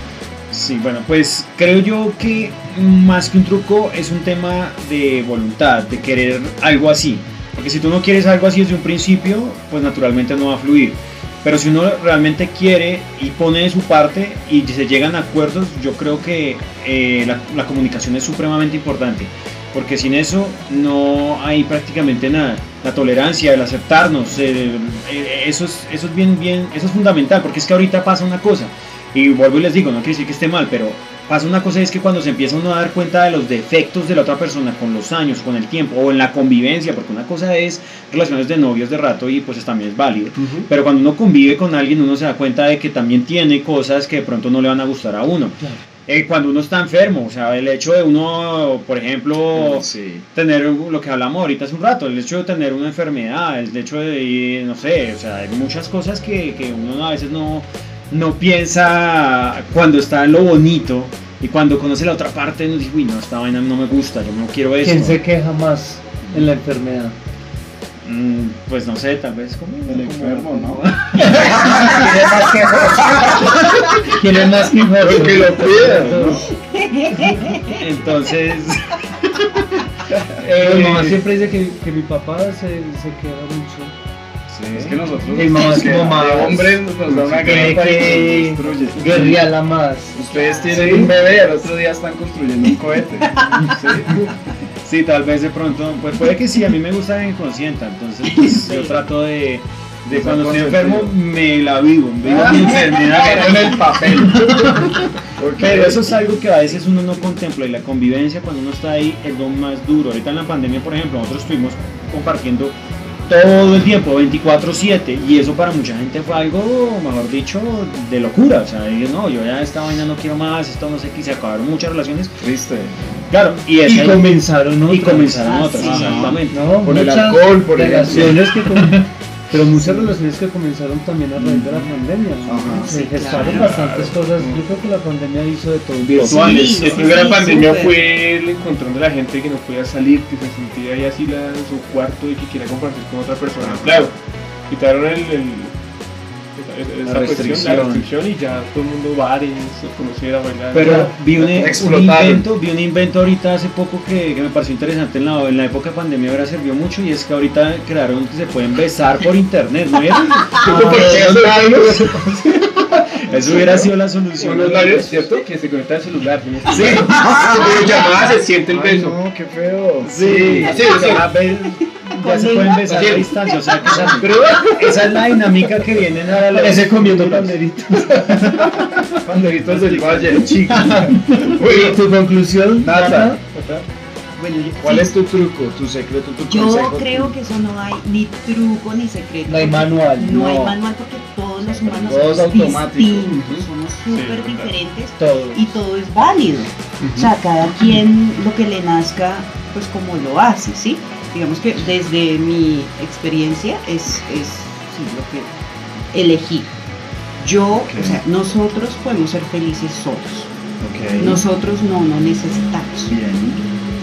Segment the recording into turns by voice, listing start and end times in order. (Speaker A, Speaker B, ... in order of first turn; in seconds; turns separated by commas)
Speaker A: 0.5-65.2, Speaker B: 49.5-50.2, Speaker C: 64.8-67.1, Speaker A: 68.0-72.1, Speaker B: 69.9-72.0, Speaker C: 71.2-73.4, Speaker B: 73.0-73.5, Speaker C: 74.0-76.4, Speaker B: 75.0-76.4, Speaker D: 76.5-77.8, Speaker A: 77.6-79.7, Speaker A: 80.4-81.1, Speaker C: 80.4-83.9, Speaker A: 84.5-85.0, Speaker B: 84.7-89.4, Speaker C: 85.3-86.8, Speaker A: 85.6-85.9, Speaker A: 87.1-88.2, Speaker C: 87.4-90.2, Speaker B: 90.1-94.3, Speaker D: 90.2-91.5, Speaker E: 90.7-91.1, Speaker D: 93.5-93.7, Speaker A: 94.8-112.7, Speaker D: 98.4-99.0, Speaker B: 100.1-101.2, Speaker B: 102.2-106.2, Speaker A: 113.3-122.4, Speaker B: 122.4-122.9, Speaker A: 123.3-124.3, Speaker C: 123.8-136.6, Speaker A: 124.9-126.7, Speaker D: 125.4-126.4, Speaker B: 125.8-128.4, Speaker A: 128.1-129.0, Speaker B: 131.4-131.9, Speaker B: 132.4-132.9, Speaker D: 132.7-133.7, Speaker E: 133.2-134.6, Speaker E: 136.2-144.1, Speaker D: 136.3-138.0, Speaker E: 144.7-145.7, Speaker E: 146.6-151.7, Speaker A: 147.0-148.1, Speaker A: 150.7-165.4, Speaker C: 150.8-151.1, Speaker B: 151.4-152.5, Speaker E: 160.5-162.3, Speaker C: 160.7-161.3, Speaker B: 163.3-163.9, Speaker E: 164.4-169.2, Speaker A: 166.7-167.9, Speaker B: 168.7-171.0, Speaker A: 170.0-177.5, Speaker E: 170.6-171.3, Speaker D: 171.7-174.2, Speaker B: 173.8-174.3, Speaker C: 176.5-178.5, Speaker A: 178.2-178.7, Speaker B: 179.1-182.0, Speaker A: 179.7-180.5, Speaker C: 180.7-183.4, Speaker B: 182.8-183.4, Speaker A: 183.5-183.8, Speaker D: 184.4-185.1, Speaker B: 184.8-187.3, Speaker D: 186.5-205.5, Speaker C: 189.4-190.5, Speaker B: 190.3-190.8, Speaker B: 191.8-193.3, Speaker E: 193.3-194.8, Speaker C: 195.2-195.8, Speaker E: 197.0-197.3, Speaker D: 206.1-206.7, Speaker D: 207.4-210.5, Speaker B: 207.7-208.2, Speaker B: 210.8-211.4, Speaker D: 211.2-213.1, Speaker B: 213.1-213.6